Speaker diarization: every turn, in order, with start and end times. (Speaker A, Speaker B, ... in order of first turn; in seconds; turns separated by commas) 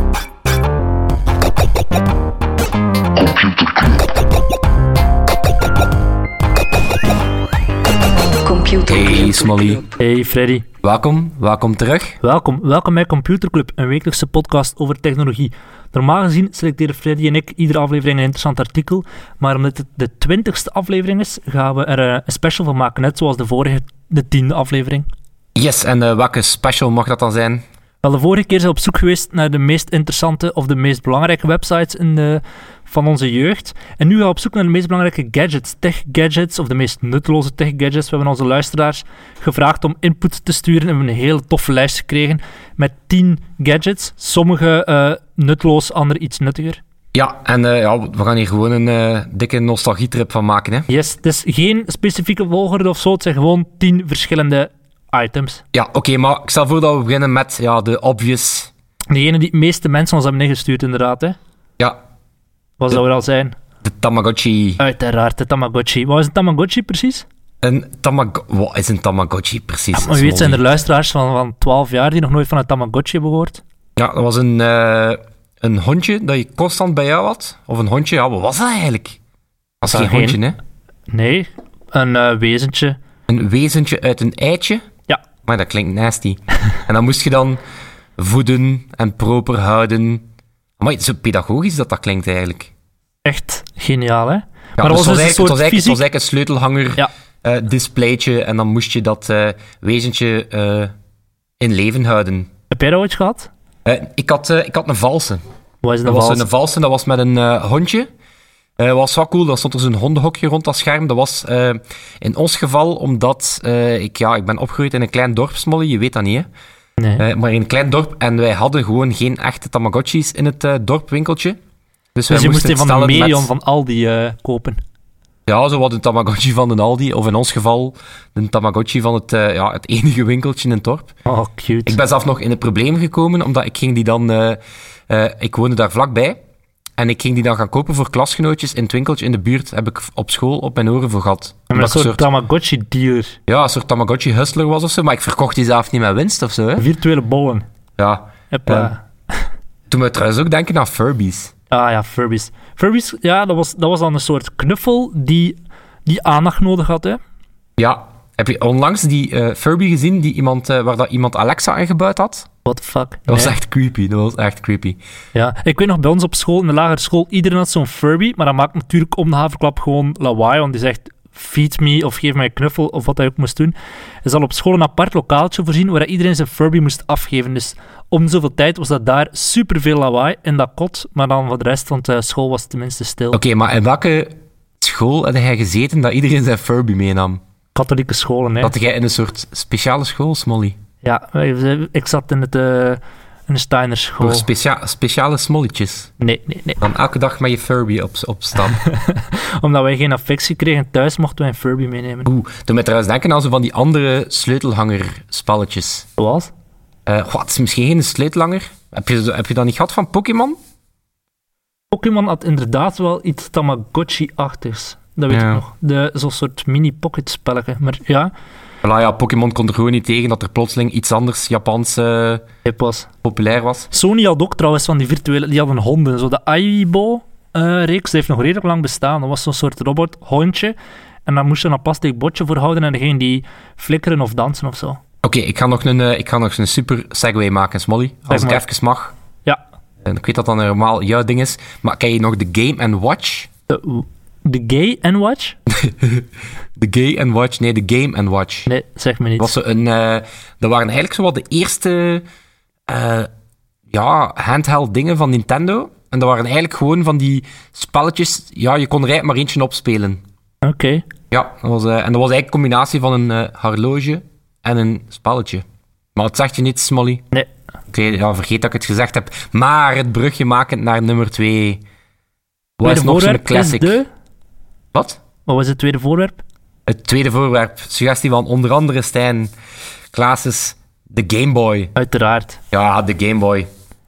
Speaker A: 3.5-3.9, Speaker A: 8.4-10.0, Speaker B: 8.9-9.8, Speaker C: 10.0-10.6, Speaker B: 10.8-12.2, Speaker C: 12.2-25.1, Speaker B: 25.5-27.6, Speaker C: 28.0-46.8, Speaker B: 47.1-50.9, Speaker C: 50.9-55.6, Speaker B: 55.7-58.7, Speaker C: 59.1-61.4, Speaker C: 62.8-63.5, Speaker B: 63.8-64.8, Speaker C: 64.8-67.2, Speaker B: 67.6-70.6, Speaker C: 69.9-73.6, Speaker B: 74.0-79.2, Speaker B: 79.8-80.6, Speaker C: 79.8-80.4, Speaker C: 81.1-83.0, Speaker B: 83.3-84.8, Speaker B: 85.4-87.6, Speaker B: 88.2-90.2, Speaker B: 90.8-92.7, Speaker C: 93.2-96.0, Speaker B: 94.8-100.9, Speaker B: 101.6-102.5, Speaker C: 102.7-103.5, Speaker B: 103.8-105.4, Speaker C: 105.8-106.5, Speaker B: 106.0-108.1, Speaker B: 108.8-116.5, Speaker C: 117.0-117.2, Speaker B: 117.2-121.6, Speaker B: 122.1-123.5, Speaker C: 122.3-124.8, Speaker B: 125.5-131.1, Speaker C: 131.3-132.0, Speaker B: 131.8-136.4, Speaker B: 137.0-142.3, Speaker C: 141.7-143.3, Speaker B: 143.5-146.8, Speaker C: 146.8-147.6, Speaker B: 148.0-148.9, Speaker C: 148.5-149.4, Speaker B: 149.9-151.5, Speaker C: 151.7-157.2, Speaker B: 157.8-162.5, Speaker C: 162.6-163.6, Speaker B: 163.3-165.0, Speaker C: 165.3-183.4, Speaker B: 183.3-187.4, Speaker C: 187.7-188.7, Speaker B: 188.6-190.8, Speaker C: 191.0-194.5, Speaker B: 194.2-196.1, Speaker C: 196.2-196.8, Speaker B: 196.8-198.8, Speaker C: 198.7-202.3, Speaker B: 202.2-206.1, Speaker C: 206.2-206.5, Speaker B: 207.1-210.6, Speaker C: 211.9-218.3, Speaker B: 215.3-215.6, Speaker B: 218.8-222.4, Speaker C: 222.6-223.1, Speaker B: 223.2-223.9, Speaker C: 223.9-230.7, Speaker C: 231.2-235.0, Speaker B: 235.2-239.1, Speaker C: 238.3-238.6, Speaker B: 240.0-243.5, Speaker C: 243.7-245.6, Speaker B: 245.7-248.7, Speaker C: 248.7-249.5, Speaker B: 249.4-252.2, Speaker B: 252.9-253.3, Speaker B: 253.9-260.2, Speaker C: 260.6-261.0, Speaker B: 261.3-267.2, Speaker B: 267.9-271.8, Speaker B: 272.8-274.0, Speaker C: 272.8-274.1, Speaker B: 274.9-275.2, Speaker C: 275.5-276.4, Speaker B: 276.9-279.5, Speaker B: 280.1-281.9, Speaker C: 281.9-282.6, Speaker B: 282.7-283.7